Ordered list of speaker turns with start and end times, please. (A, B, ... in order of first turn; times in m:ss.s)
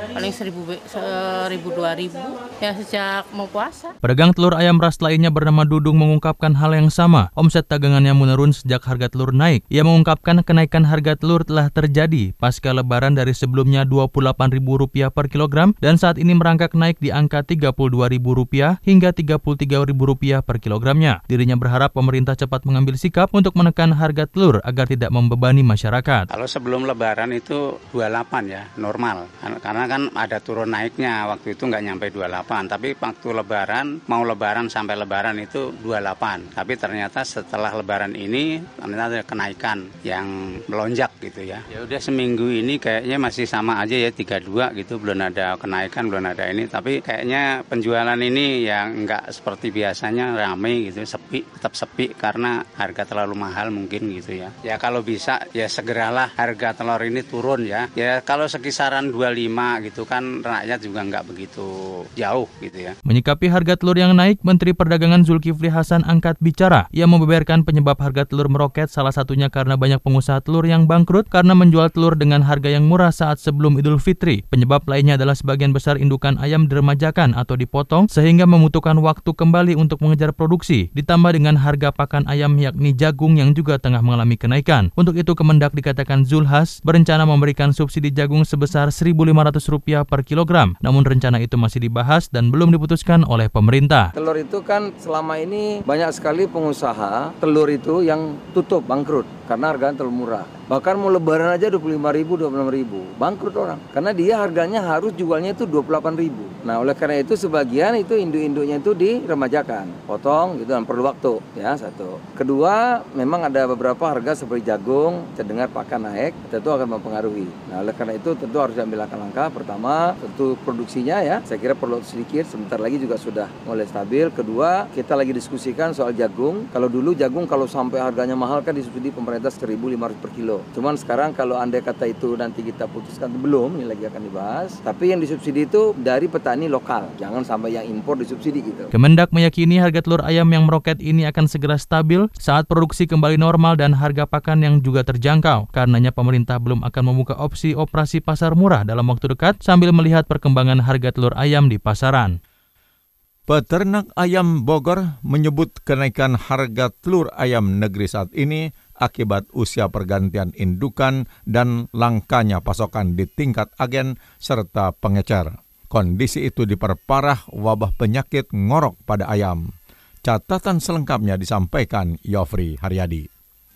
0:00.1-0:03.9 A
0:04.0-0:26.3 B
0:26.3-1:02.9 C
1:03.1-1:34.1 B
1:34.2-2:18.9 D
2:18.9-2:32.4 B
2:33.5-2:49.6 E
2:50.2-2:53.3 E